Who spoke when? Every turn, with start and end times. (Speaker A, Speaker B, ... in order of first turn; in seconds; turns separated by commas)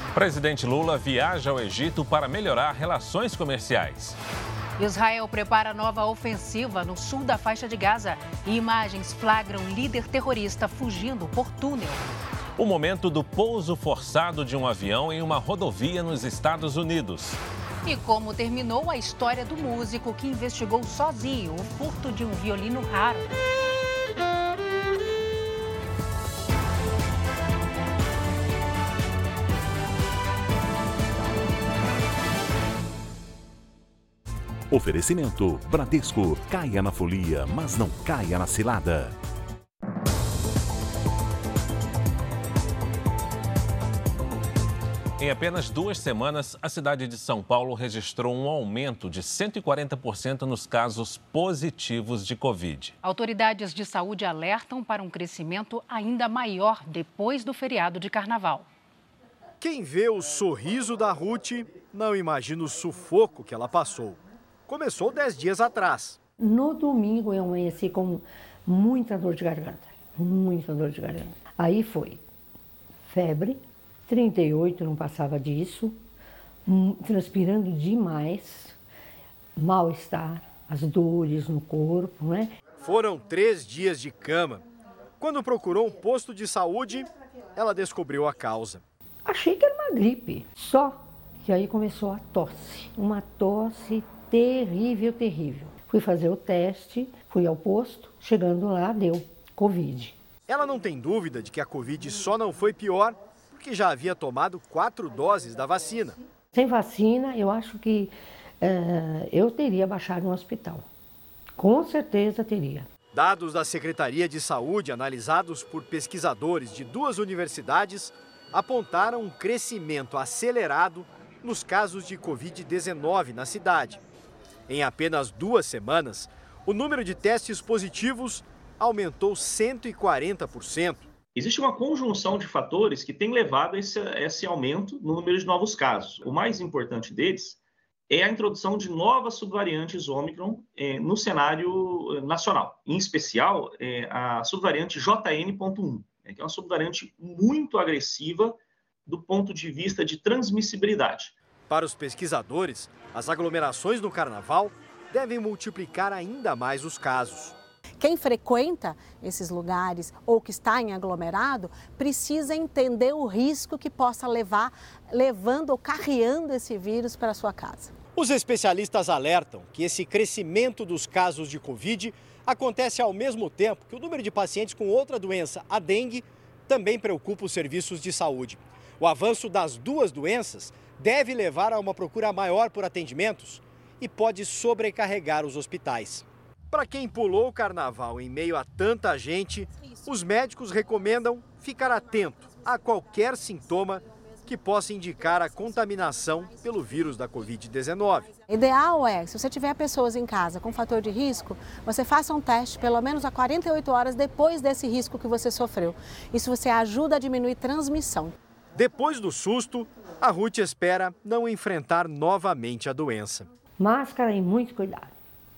Speaker A: 0.1-4.2, Speaker B: 4.8-12.1, Speaker A: 12.6-17.4, Speaker B: 17.9-23.4, Speaker C: 34.7-39.1, Speaker A: 45.2-52.9, Speaker B: 53.0-58.7, Speaker D: 59.6-66.2, Speaker E: 66.4-72.2, Speaker E: 73.1-76.0, Speaker E: 76.7-78.8, Speaker E: 79.6-82.6, Speaker D: 82.8-84.6, Speaker D: 85.2-88.8, Speaker E: 89.2-100.2, Speaker D: 100.5-106.2, Speaker E: 106.5-110.9, Speaker E: 111.6-112.9, Speaker D: 113.1-124.0, Speaker D: 124.7-131.1, Speaker F: 131.3-137.6, Speaker F: 138.1-151.3, Speaker D: 151.7-157.6, Speaker G: 158.0-167.9, Speaker D: 168.2-198.4, Speaker G: 198.5-208.3, Speaker D: 208.8-213.5, Speaker E: 213.8-215.1